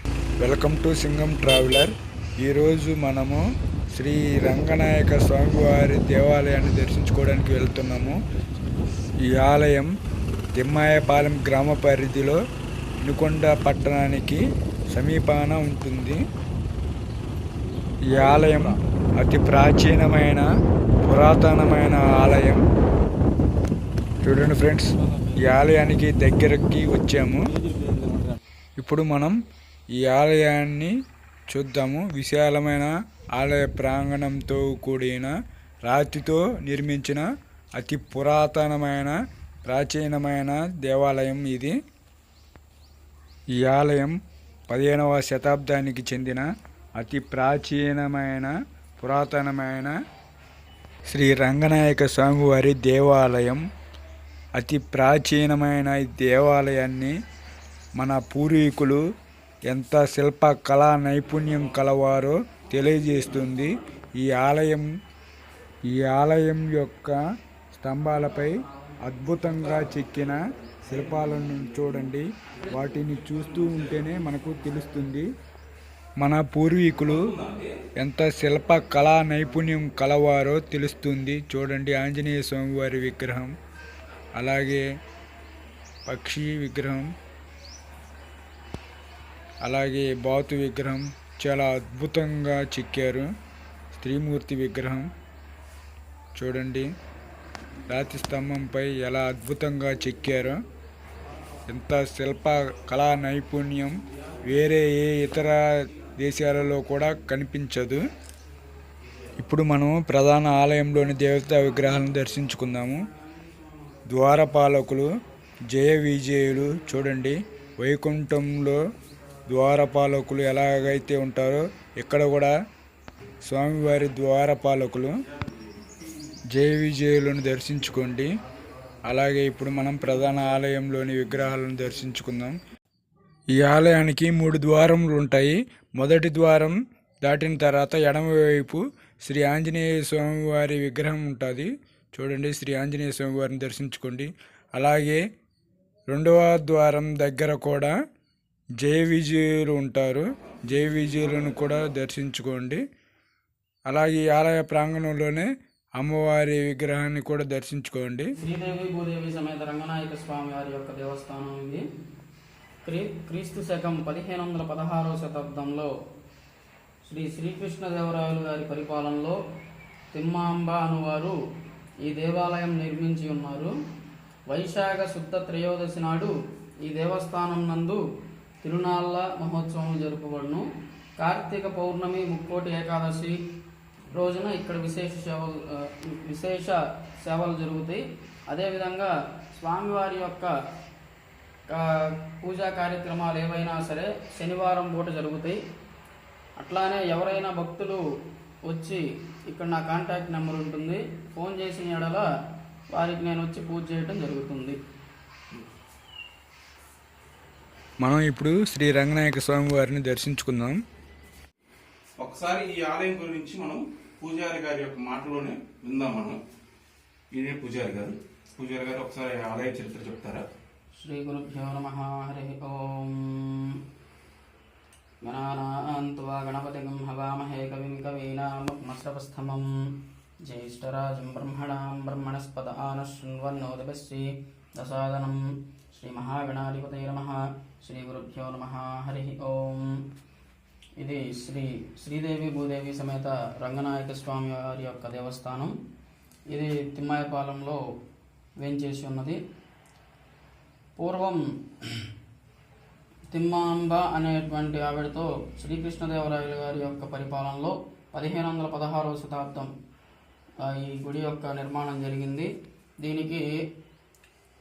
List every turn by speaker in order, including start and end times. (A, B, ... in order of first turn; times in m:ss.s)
0:00.4-0:03.4 A
0:03.9-0:08.2 A
0:09.3-0:09.9 A
0:10.6-0:12.4 A
0:13.0-0:14.4 A
0:14.9-0:16.2 A
0:18.1-0:20.5 A
0:18.1-0:18.6 B
0:21.0-0:22.6 A
0:24.2-0:24.9 A
0:25.4-0:27.5 A
0:27.8-0:28.2 B
0:28.8-0:29.4 A
0:30.0-0:30.9 A
0:31.5-0:35.3 A
0:35.8-0:39.1 A
0:39.6-0:41.7 A
0:43.6-0:44.1 A
0:44.7-0:46.4 A
0:47.0-0:49.9 A
0:51.1-0:53.6 A
0:54.6-0:57.1 A
0:58.0-0:59.0 A
0:59.7-1:04.9 A
1:05.9-1:07.2 A
1:07.8-1:15.3 A
1:09.6-1:09.9 B
1:12.6-1:14.1 B
1:16.2-1:17.3 A
1:16.9-1:17.7 B
1:18.0-1:23.5 A
1:24.4-1:24.8 A
1:26.0-1:27.1 A
1:29.6-1:33.3 A
1:33.9-1:35.1 A
1:36.4-1:36.9 A
1:37.9-1:40.6 A
1:41.7-1:48.0 A
1:49.4-1:53.1 A
1:54.1-1:55.1 A
1:55.7-1:58.8 A
1:59.5-2:02.5 A
2:03.4-2:05.1 A
2:06.5-2:08.3 A
2:09.1-2:12.6 A
2:13.5-2:25.2 A
2:26.1-2:27.9 A
2:28.8-2:32.8 A
2:33.9-2:35.4 A
2:36.0-2:38.3 A
2:38.4-2:41.8 C
2:42.8-2:45.9 C
2:47.0-2:49.4 C
2:50.1-2:51.3 C
2:52.0-2:53.7 C
2:54.5-2:56.3 C
2:56.8-2:58.0 C
2:58.6-3:00.6 C
3:01.2-3:03.4 C
3:04.1-3:10.5 C
3:11.7-3:15.6 C
3:16.6-3:18.0 C
3:18.7-3:22.2 C
3:22.9-3:24.8 C
3:28.0-3:30.8 A
3:32.2-3:36.4 B
3:37.3-3:40.4 B
3:41.0-3:43.8 C
3:45.2-3:49.7 C
3:50.4-3:55.4 C
3:55.9-4:00.0 C
4:01.0-4:05.7 C
4:06.5-4:07.8 C
4:08.6-4:09.4 C
4:11.0-4:12.1 C
4:13.3-4:19.7 C
4:20.6-4:22.5 C
4:23.0-4:23.4 C